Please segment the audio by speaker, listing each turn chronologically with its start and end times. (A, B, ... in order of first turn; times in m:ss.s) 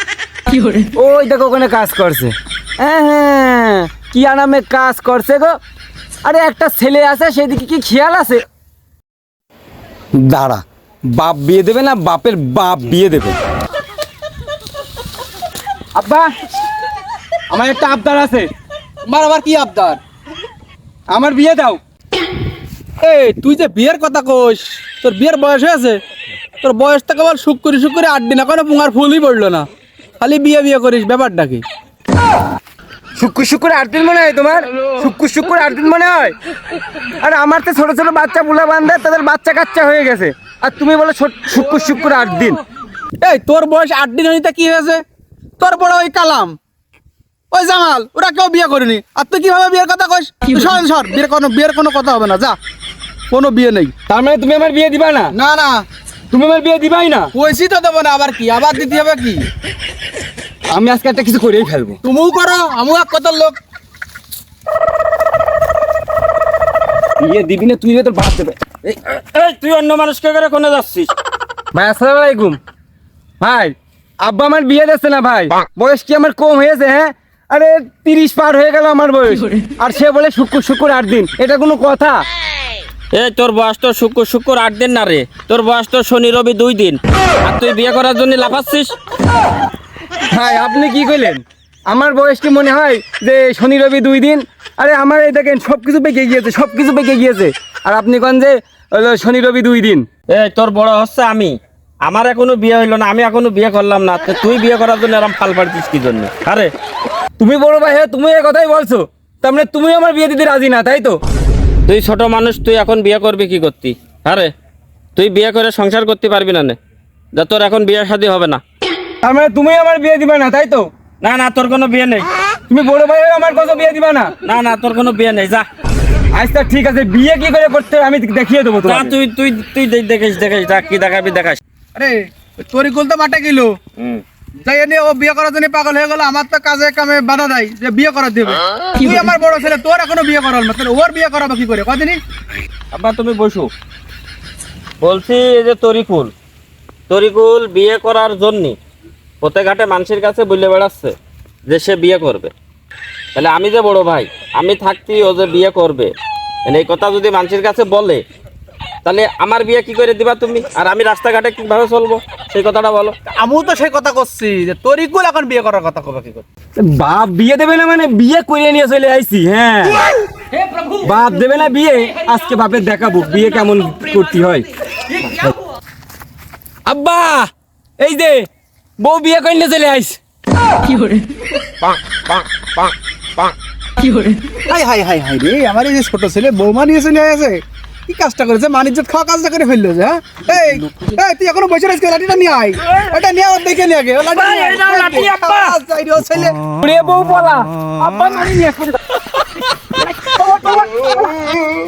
0:00.9-0:05.6 A
0:06.2-0:08.4 A
0:10.2-0:13.4 A
0:15.9-0:16.3 A
0:17.5-0:18.5 A
0:19.0-0:20.0 B
0:21.1-0:21.8 A
0:23.0-0:26.0 B
0:26.6-0:29.7 B
0:30.2-0:31.6 B
0:33.2-0:36.3 A
0:37.2-0:42.6 A
0:43.2-0:45.0 B
0:45.6-0:46.6 B
0:47.5-0:52.6 B
0:53.3-0:53.9 B
0:54.1-0:55.3 A
0:55.3-0:55.8 B
0:56.3-0:57.3 A
0:57.3-0:59.5 B
1:00.7-1:02.0 A
1:02.0-1:03.6 B
1:07.2-1:08.6 A
1:08.8-1:11.1 C
1:11.7-1:12.6 A
1:13.4-1:22.2 A
1:23.1-1:28.9 C
1:30.3-1:40.0 A
1:40.3-1:46.7 C
1:47.4-1:51.2 A
1:51.9-1:54.5 C
1:55.2-1:56.8 C
1:57.3-1:58.6 C
1:59.2-2:00.9 A
2:01.2-2:02.3 C
2:02.7-2:04.3 A
2:04.4-2:05.6 C
2:06.3-2:09.1 A
2:08.8-2:11.6 C
2:11.9-2:13.8 B
2:14.0-2:14.2 C
2:14.6-2:22.2 B
2:22.9-2:23.7 C
2:25.0-2:26.3 C
2:27.1-2:28.8 C
2:29.4-2:31.1 C
2:31.7-2:32.5 C
2:33.3-2:36.1 C
2:36.6-2:38.2 C
2:39.0-2:43.1 C
2:43.3-2:46.4 B
2:46.8-2:50.0 A
2:51.0-2:54.6 A
2:56.8-2:57.5 A
2:58.0-2:58.5 A
2:59.0-3:00.2 A
3:01.8-3:02.9 C
3:04.5-3:16.6 B
3:14.3-3:15.8 C
3:16.8-3:19.0 A
3:20.4-3:21.0 A